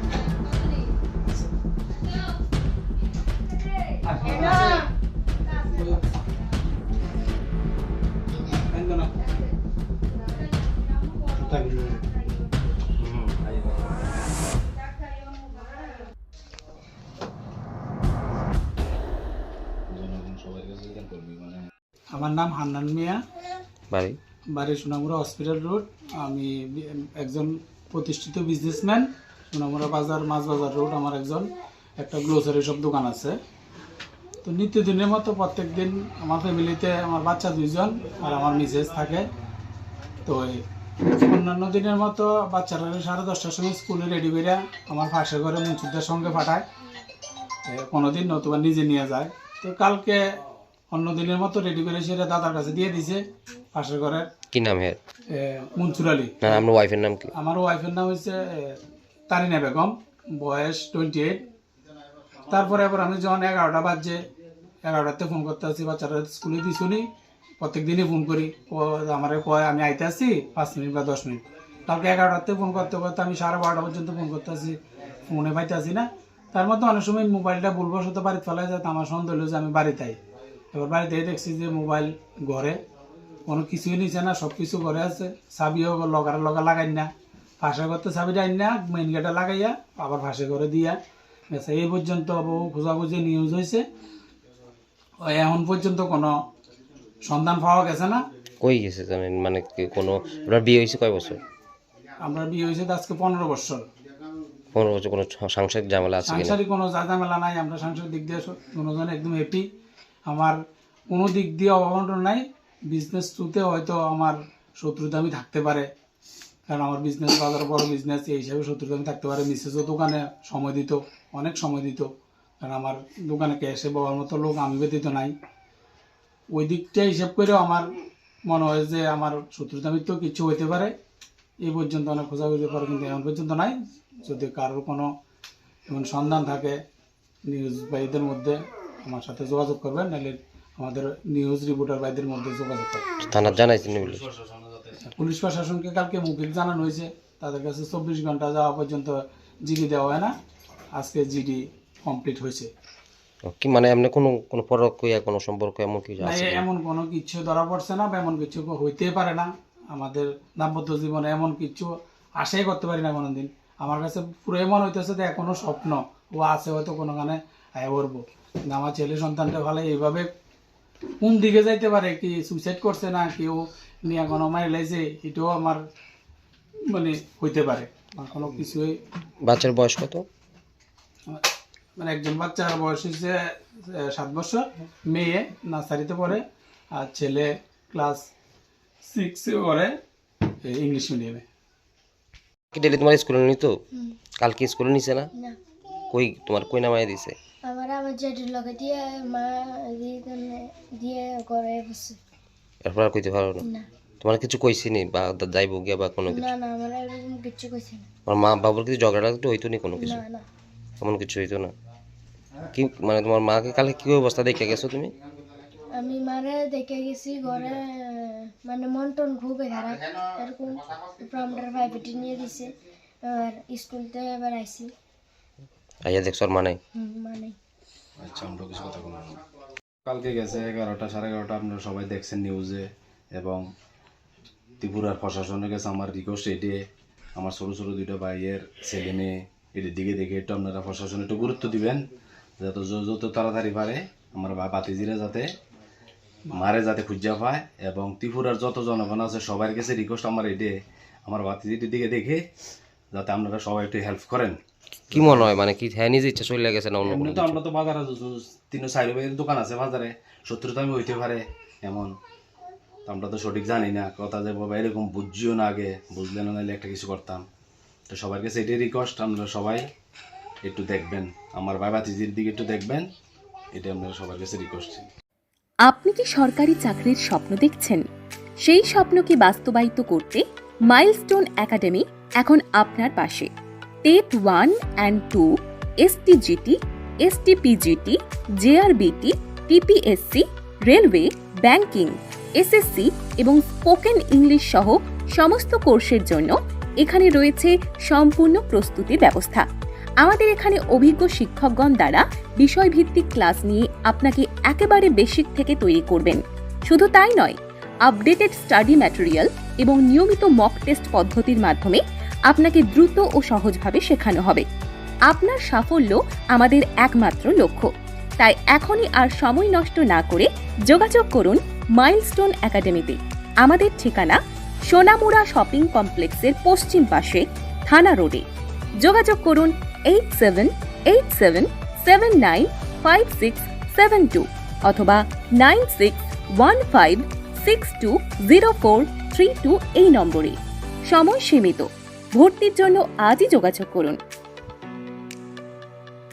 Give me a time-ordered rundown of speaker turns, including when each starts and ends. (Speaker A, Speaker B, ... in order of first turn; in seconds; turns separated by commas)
Speaker A: 4.0-4.8, Speaker A: 5.6-6.0, Speaker A: 8.7-9.1, Speaker A: 11.3-12.0, Speaker B: 13.0-13.9, Speaker B: 19.9-21.6, Speaker A: 22.1-23.2, Speaker C: 23.9-24.2, Speaker A: 24.5-33.4, Speaker A: 34.4-39.3, Speaker A: 40.2-40.6, Speaker A: 41.1-46.6, Speaker A: 47.6-50.2, Speaker A: 50.9-53.2, Speaker A: 53.7-54.3, Speaker C: 54.5-55.0, Speaker A: 55.3-56.6, Speaker C: 56.4-57.3, Speaker A: 57.3-61.4, Speaker A: 62.5-64.2, Speaker A: 64.8-67.1, Speaker A: 67.6-80.2, Speaker A: 80.7-82.8, Speaker A: 83.5-91.0, Speaker A: 91.5-93.8, Speaker A: 95.2-96.3, Speaker A: 97.2-98.2, Speaker C: 98.6-101.4, Speaker A: 102.2-103.8, Speaker C: 104.7-106.6, Speaker A: 106.2-109.7, Speaker A: 110.3-110.6, Speaker A: 111.1-115.9, Speaker A: 116.7-122.1, Speaker A: 122.6-125.3, Speaker A: 126.5-127.9, Speaker A: 128.4-130.9, Speaker A: 131.6-135.1, Speaker A: 135.9-136.8, Speaker A: 137.4-143.1, Speaker C: 143.3-144.2, Speaker B: 143.3-145.0, Speaker A: 145.1-150.3, Speaker A: 150.9-152.7, Speaker C: 153.4-156.6, Speaker A: 156.2-170.3, Speaker A: 171.2-175.8, Speaker A: 176.9-179.0, Speaker C: 179.4-180.2, Speaker A: 182.0-183.3, Speaker A: 183.9-186.4, Speaker A: 186.9-188.3, Speaker A: 189.0-189.9, Speaker A: 190.6-191.4, Speaker C: 192.7-193.8, Speaker C: 194.4-195.3, Speaker C: 196.1-197.3, Speaker D: 197.7-202.2, Speaker C: 202.8-203.7, Speaker C: 204.2-206.5, Speaker D: 206.3-208.1, Speaker C: 208.2-210.2, Speaker D: 210.0-210.4, Speaker C: 211.0-211.7, Speaker C: 212.7-215.1, Speaker D: 215.9-222.7, Speaker D: 223.2-224.9, Speaker C: 226.1-226.8, Speaker D: 226.9-227.6, Speaker B: 228.2-229.4, Speaker B: 230.0-233.6, Speaker B: 234.8-236.8, Speaker B: 237.3-242.0, Speaker B: 242.6-245.5, Speaker B: 246.5-252.4, Speaker B: 253.1-254.6, Speaker B: 255.1-255.5, Speaker C: 255.1-257.6, Speaker B: 257.0-262.1, Speaker B: 263.1-267.4, Speaker B: 268.1-269.8, Speaker B: 270.6-273.1, Speaker B: 273.8-275.1, Speaker E: 275.9-278.0, Speaker E: 278.6-283.5, Speaker E: 284.1-285.5, Speaker E: 286.0-299.6, Speaker E: 300.2-314.6, Speaker E: 315.3-317.9, Speaker E: 318.4-324.4, Speaker E: 324.9-328.4, Speaker E: 329.0-344.2